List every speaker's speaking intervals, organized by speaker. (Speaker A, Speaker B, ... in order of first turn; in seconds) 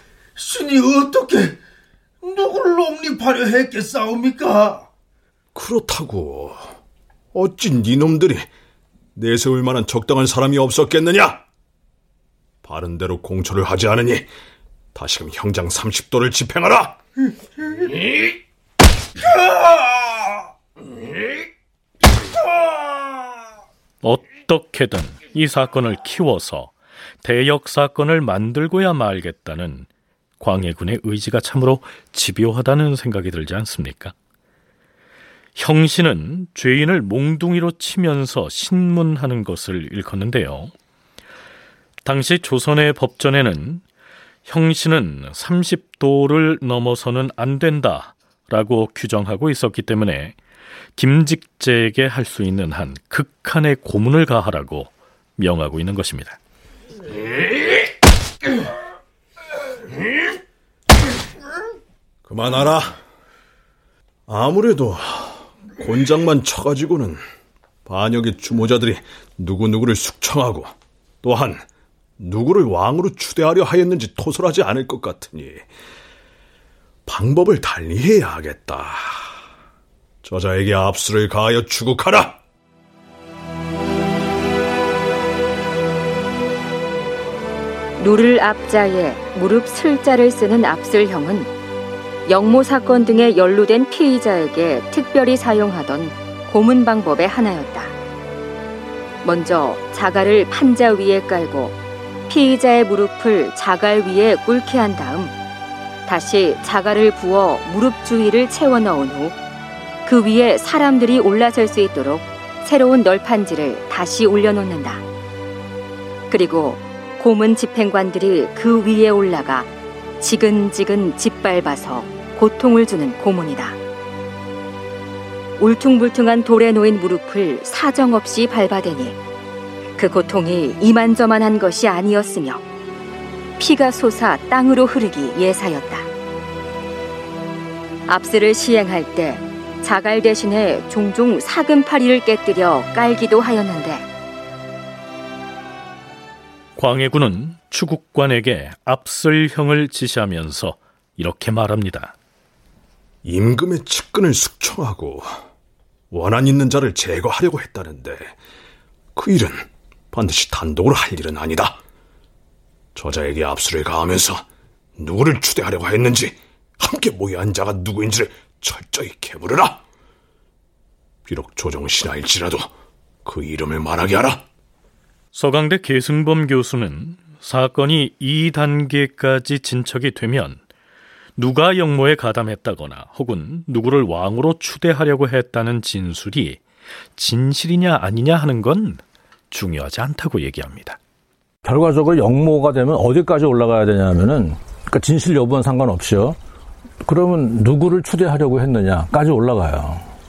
Speaker A: 0.3-1.6, 2.2-4.8
Speaker B: 5.5-6.6, 7.3-8.5, 9.1-11.4, 12.6-14.3, 14.9-17.0, 62.2-63.0, 64.3-67.2, 67.8-71.6, 72.2-75.7, 77.0-79.3, 80.2-82.4, 153.2-155.3, 156.1-158.3, 159.1-161.8, 162.9-164.4, 165.0-169.8, 171.2-172.7, 173.2-174.4
Speaker C: 24.0-29.9, 30.4-34.1, 35.5-40.7, 42.0-43.8, 44.4-50.4, 51.0-56.4, 146.8-152.1, 175.3-180.6, 181.4-186.6, 187.2-191.0
Speaker D: 88.0-91.5, 92.3-97.9, 99.2-101.7, 102.3-105.3, 106.0-109.3, 110.0-115.0, 116.3-119.7, 120.2-123.8, 125.6-129.2, 130.0-132.6, 133.6-136.1, 138.1-144.0
Speaker E: 191.6-196.4, 197.1-200.1